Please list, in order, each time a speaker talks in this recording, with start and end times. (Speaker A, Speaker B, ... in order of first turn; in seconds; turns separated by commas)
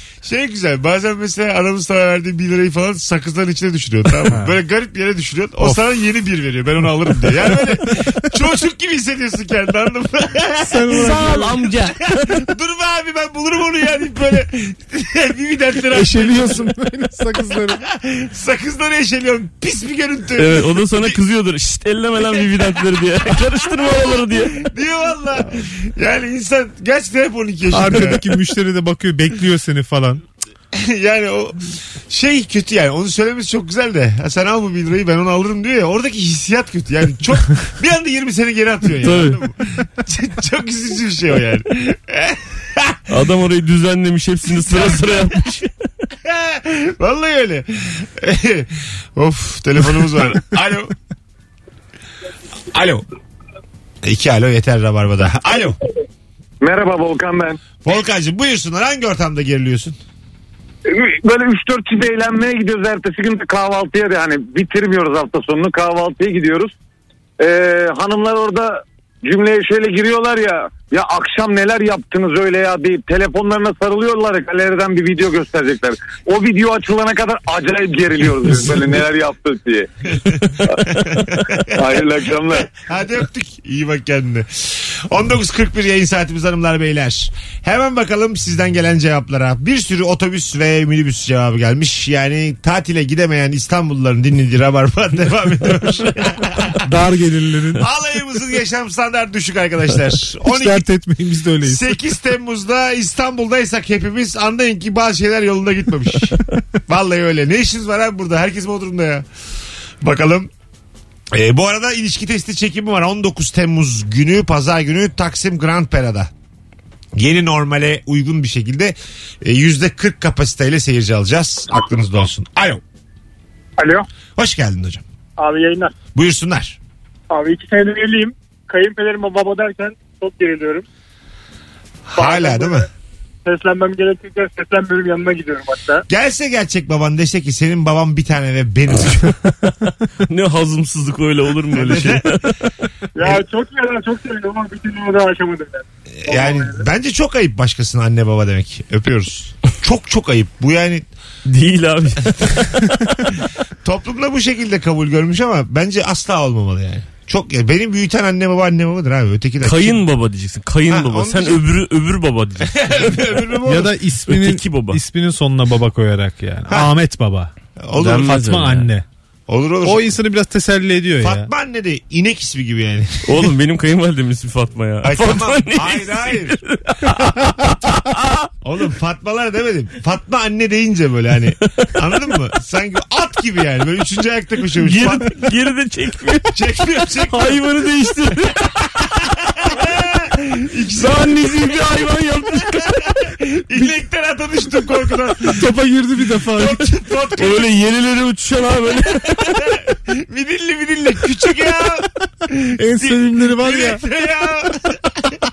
Speaker A: 0.2-11.4, Speaker B: 4.3-4.5, Speaker B: 7.2-8.1, Speaker B: 10.6-11.6, Speaker C: 10.9-12.4, Speaker A: 12.2-16.7, Speaker B: 15.9-17.8, Speaker A: 17.8-21.2, Speaker C: 20.4-24.6, Speaker A: 22.3-28.3, Speaker B: 27.7-30.2, Speaker A: 30.7-43.0, Speaker C: 39.0-39.4, Speaker C: 43.1-45.7, Speaker A: 44.6-45.4, Speaker A: 46.2-50.9, Speaker A: 52.7-53.0, Speaker A: 54.0-55.8, Speaker D: 56.6-57.6, Speaker A: 57.8-60.0, Speaker D: 60.9-66.7, Speaker D: 67.4-79.9, Speaker A: 80.2-82.0, Speaker D: 81.7-82.7, Speaker A: 82.6-96.9, Speaker B: 96.8-97.8, Speaker A: 97.8-100.8, Speaker B: 100.4-101.9, Speaker A: 101.6-109.2, Speaker A: 110.0-110.5, Speaker A: 111.3-116.3, Speaker A: 117.2-122.8, Speaker E: 123.8-124.1, Speaker A: 124.4-125.0, Speaker E: 125.4-125.9, Speaker A: 126.1-126.8, Speaker E: 127.3-130.8, Speaker A: 132.1-132.9, Speaker E: 132.2-132.9, Speaker E: 133.4-136.0, Speaker A: 136.1-139.4, Speaker C: 140.2-142.6, Speaker A: 141.7-142.4, Speaker E: 143.2-146.8, Speaker A: 143.2-143.4, Speaker A: 146.2-151.1, Speaker C: 151.4-153.4, Speaker A: 153.8-160.0, Speaker C: 159.6-163.4, Speaker A: 160.9-161.6, Speaker A: 162.7-163.9, Speaker B: 163.7-167.5, Speaker C: 164.2-165.0, Speaker A: 167.8-168.3, Speaker C: 167.9-168.9, Speaker B: 168.0-169.0, Speaker A: 169.5-170.1, Speaker B: 169.8-171.5, Speaker A: 171.2-173.5, Speaker C: 173.2-178.5, Speaker A: 175.0-176.6, Speaker A: 178.6-185.4, Speaker C: 184.8-189.0, Speaker A: 186.5-187.6, Speaker A: 189.1-191.8, Speaker C: 190.9-193.0, Speaker A: 192.7-195.6, Speaker B: 195.4-197.0, Speaker A: 196.5-197.7, Speaker C: 197.4-199.8, Speaker A: 199.4-205.4, Speaker B: 202.8-204.0